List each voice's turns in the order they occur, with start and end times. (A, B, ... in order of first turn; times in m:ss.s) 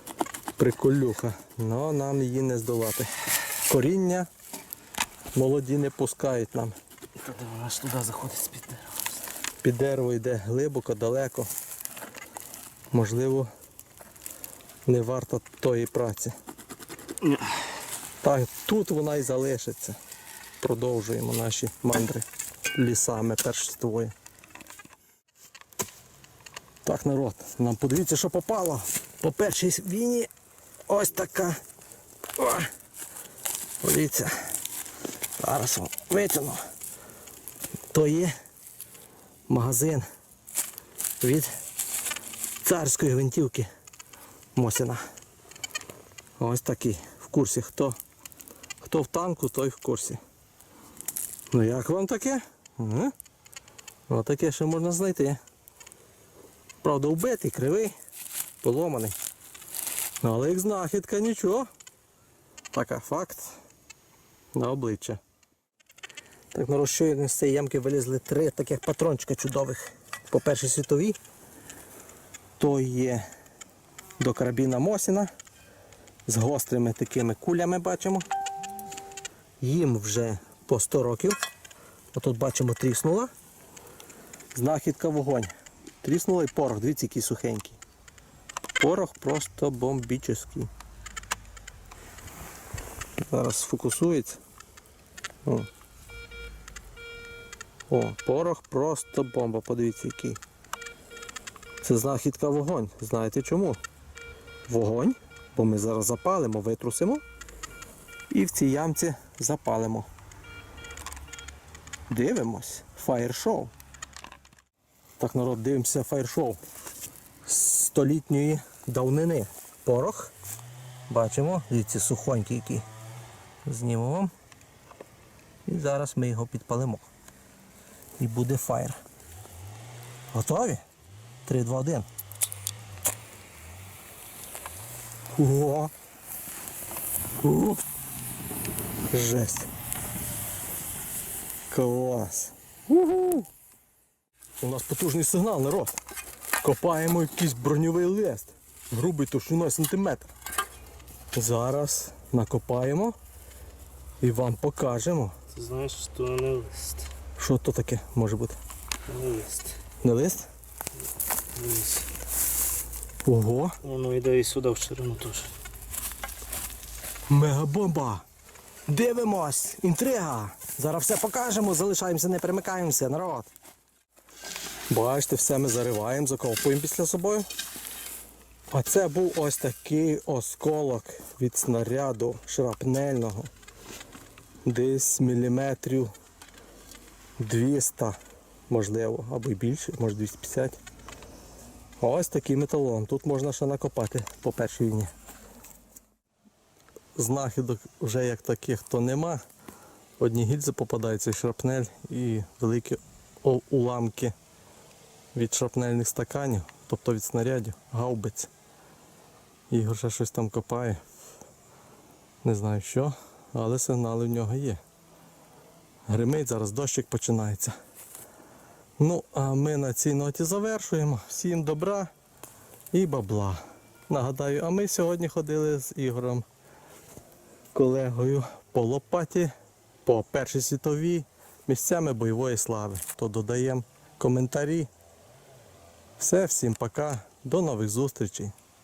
0:00.6-0:03.1 A
0:03.7-0:04.3 A
0:05.3-0:06.8 A
0:07.2-0:09.2 B
0:09.6-0:11.5 A
0:12.9-0:13.5 A
0:14.9-0:16.3 A
0:18.2-0:20.0 A
0:20.6-0:24.1 A
0:26.8-0:30.3 A
0:30.9-0:31.6 A
0:32.4-0:32.7 A
0:33.8-0:34.6 A
0:35.4-0:36.6 A
0:37.9-0:38.4 A
0:39.5-0:40.1 A
0:41.2-0:41.5 A
0:42.6-0:43.7 A
0:44.6-0:45.0 A
0:46.4-0:48.0 A
0:48.8-0:50.2 A
0:51.5-0:53.1 A
0:54.1-0:55.4 A
0:56.8-0:57.9 A
0:58.6-0:59.2 A
1:00.2-1:01.7 A
1:02.7-1:03.6 A
1:04.5-1:05.2 A
1:06.5-1:11.2 A
1:12.6-1:13.2 A
1:14.2-1:15.3 A
1:16.3-1:18.3 A
1:19.6-1:21.4 A
1:22.1-1:23.3 A
1:24.5-1:27.8 A
1:28.8-1:30.7 A
1:33.2-1:34.4 A
1:37.9-1:40.4 A
1:41.8-1:43.8 A
1:44.7-1:47.2 A
1:48.3-1:50.1 A
1:52.1-1:53.7 A
1:55.2-1:56.6 A
1:57.4-2:00.3 A
2:01.1-2:02.9 A
2:03.6-2:04.3 A
2:05.7-2:07.1 A
2:08.2-2:09.0 A
2:10.3-2:10.8 A
2:11.5-2:12.1 A
2:15.3-2:15.9 A
2:17.4-2:17.8 A
2:19.1-2:19.7 A
2:21.7-2:23.5 A
2:24.6-2:26.0 A
2:26.6-2:30.3 A
2:31.3-2:33.2 A
2:34.2-2:35.4 A
2:35.5-2:37.1 B
2:37.4-2:38.6 A
2:39.1-2:39.8 B
2:40.0-2:40.5 A
2:41.6-2:42.1 B
2:43.2-2:43.8 A
2:43.8-2:45.5 B
2:47.3-2:48.2 A
2:48.9-2:53.5 A
2:54.9-2:57.5 A
2:58.7-3:03.5 A
3:04.7-3:06.1 A
3:07.4-3:08.2 A
3:08.7-3:10.8 A
3:12.0-3:15.1 A
3:17.2-3:19.4 A
3:20.2-3:24.4 A
3:25.3-3:28.5 A
3:29.7-3:31.0 A
3:32.4-3:34.8 A
3:36.1-3:37.8 A
3:39.0-3:42.1 A
3:42.9-3:46.5 A
3:47.7-3:49.5 A
3:50.0-3:54.9 A
3:56.2-3:58.5 A